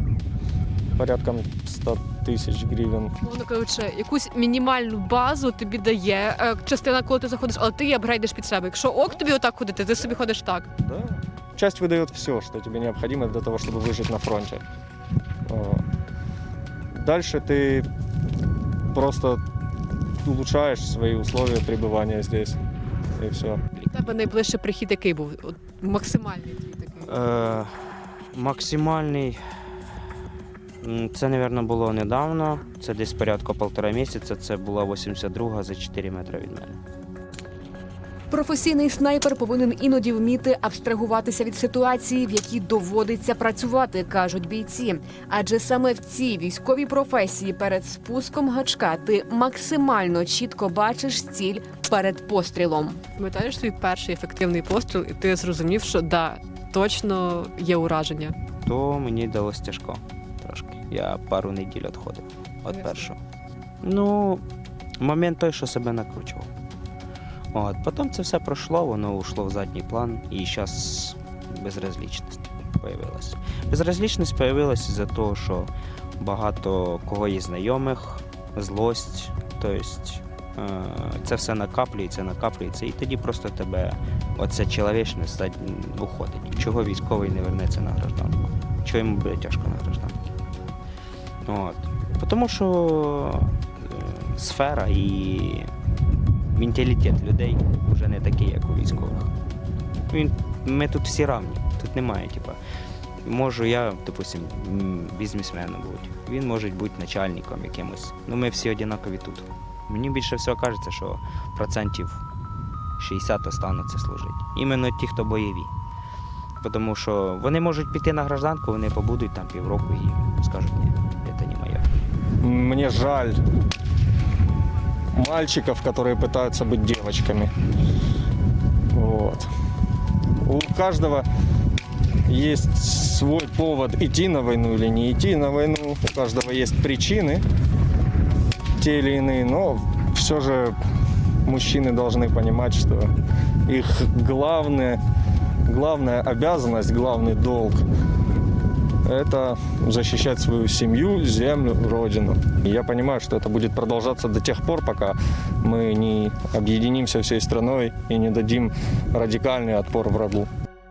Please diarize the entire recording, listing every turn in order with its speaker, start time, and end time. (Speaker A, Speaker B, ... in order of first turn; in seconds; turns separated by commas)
Speaker A: 0.9-3.2, Speaker B: 3.2-10.7, Speaker A: 10.8-14.6, Speaker A: 15.5-15.8, Speaker A: 16.9-17.9, Speaker A: 18.9-19.4, Speaker A: 20.2-22.6, Speaker A: 23.1-23.6, Speaker B: 23.9-27.1, Speaker C: 27.1-27.7, Speaker C: 28.3-29.4, Speaker C: 30.8-36.8, Speaker D: 38.3-53.0, Speaker B: 53.1-58.4, Speaker C: 58.6-63.2, Speaker C: 63.8-64.4, Speaker C: 65.0-66.5, Speaker C: 67.5-90.2, Speaker C: 91.5-95.7, Speaker C: 96.6-99.3, Speaker C: 100.1-102.6, Speaker C: 103.2-112.2, Speaker C: 113.0-115.7, Speaker C: 116.6-121.9, Speaker A: 122.4-123.4, Speaker A: 125.1-127.5, Speaker A: 128.9-129.5, Speaker A: 130.4-131.3, Speaker A: 132.3-137.4, Speaker A: 138.8-140.8, Speaker A: 141.4-143.1, Speaker A: 143.7-145.0, Speaker A: 145.7-147.8, Speaker A: 149.0-160.5